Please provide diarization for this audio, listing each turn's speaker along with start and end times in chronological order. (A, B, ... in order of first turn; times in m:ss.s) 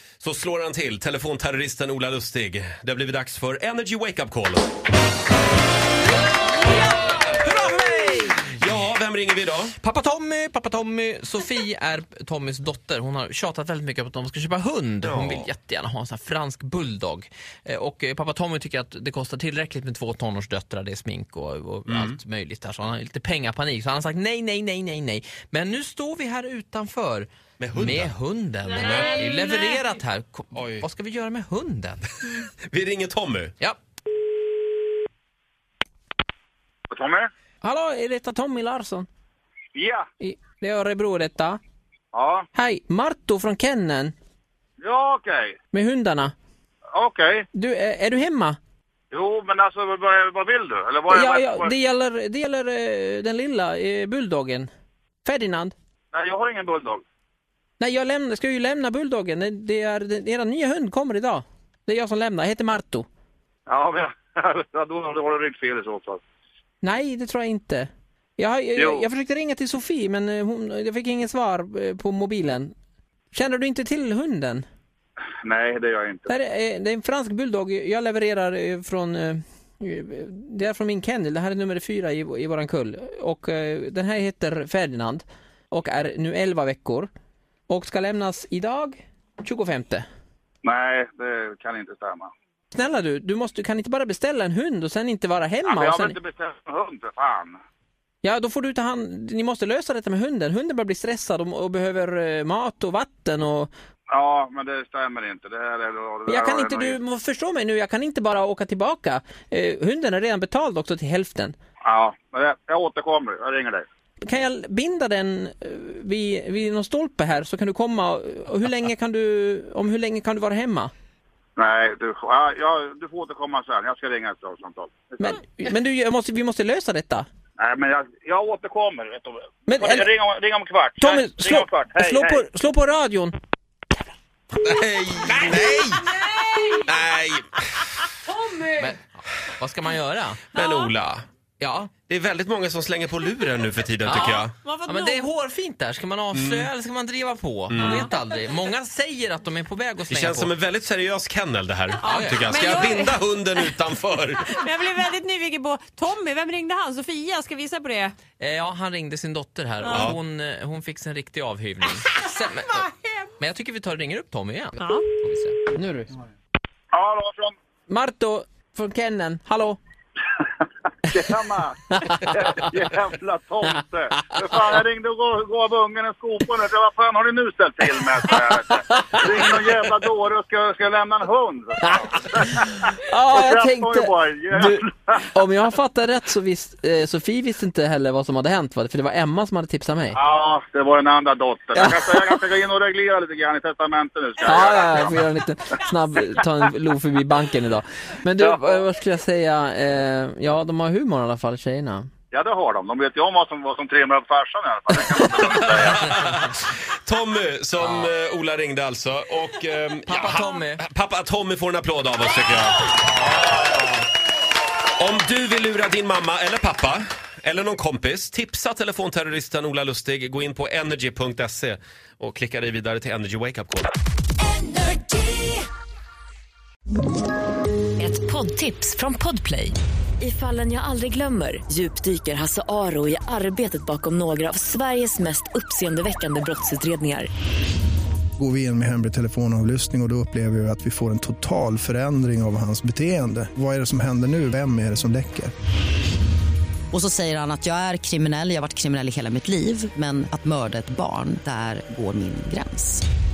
0:00.2-0:04.6 A
0:06.7-0:08.5 B
0:08.6-0:09.7 A
0:09.8-0:32.1 B
0:15.0-0:15.5 A
0:21.9-0:22.2 A
0:27.6-0:28.1 A
0:28.9-0:29.8 C
0:30.5-0:30.8 A
0:32.7-0:33.5 A
0:36.9-0:37.3 D
0:37.6-0:39.1 E
0:39.7-0:40.1 D
0:40.2-0:41.6 E
0:42.1-0:42.5 D
0:42.5-0:44.1 E
0:44.8-0:45.6 D
0:45.7-0:46.3 E
0:46.9-0:47.4 D
0:47.5-0:48.6 E
0:49.1-0:51.7 D
0:51.1-0:54.7 E
0:55.2-0:55.7 E
0:56.1-0:57.0 D
0:57.8-1:03.1 E
1:03.7-1:06.2 D
1:06.8-1:12.7 E
1:08.8-1:09.0 D
1:13.3-1:14.6 E
1:15.4-1:16.3 D
1:16.3-1:27.1 E
1:27.7-1:30.0 E
1:30.6-1:32.3 D
1:32.7-1:36.2 E
1:35.6-1:37.6 D
1:38.2-1:43.7 E
1:44.1-1:47.0 D
1:46.3-1:51.5 E
1:51.8-1:53.8 D
1:54.3-2:00.9 E
2:01.6-2:05.4 D
2:05.2-2:07.3 E
2:07.6-2:12.4 D
2:09.7-2:10.1 E
2:11.0-2:13.4 E
2:14.6-2:16.1 A
2:16.4-2:16.7 C
2:16.6-2:17.9 A
2:18.8-2:20.4 B
2:20.5-2:21.2 A
2:20.5-2:20.9 C
2:21.6-2:21.9 B
2:22.1-2:24.5 A
2:24.1-2:30.5 B
2:24.2-2:25.3 C
2:26.3-2:26.7 A
2:27.7-2:28.0 A
2:27.8-2:28.1 C
2:30.1-2:34.5 A
2:32.0-2:33.7 C
2:32.0-2:32.4 B
2:34.4-2:38.2 C
2:38.4-2:45.6 B
2:39.9-2:40.2 A
2:45.7-2:46.1 E
2:46.9-2:47.5 D
2:47.9-2:49.8 E
2:51.1-3:05.2 D
2:52.0-2:52.2 E
2:58.8-2:59.2 E
3:03.0-3:10.2 E
3:10.1-3:15.2 D
3:11.7-3:12.4 E
3:14.4-3:22.1 E
3:18.4-3:18.8 D
3:22.3-3:26.1 D
3:25.4-3:33.8 A
3:27.8-3:28.1 B
3:30.1-3:30.8 B
3:35.0-3:43.9 A
3:44.5-3:45.6 F
3:48.0-3:57.3 F
3:58.4-4:05.5 G
4:06.9-4:13.0 H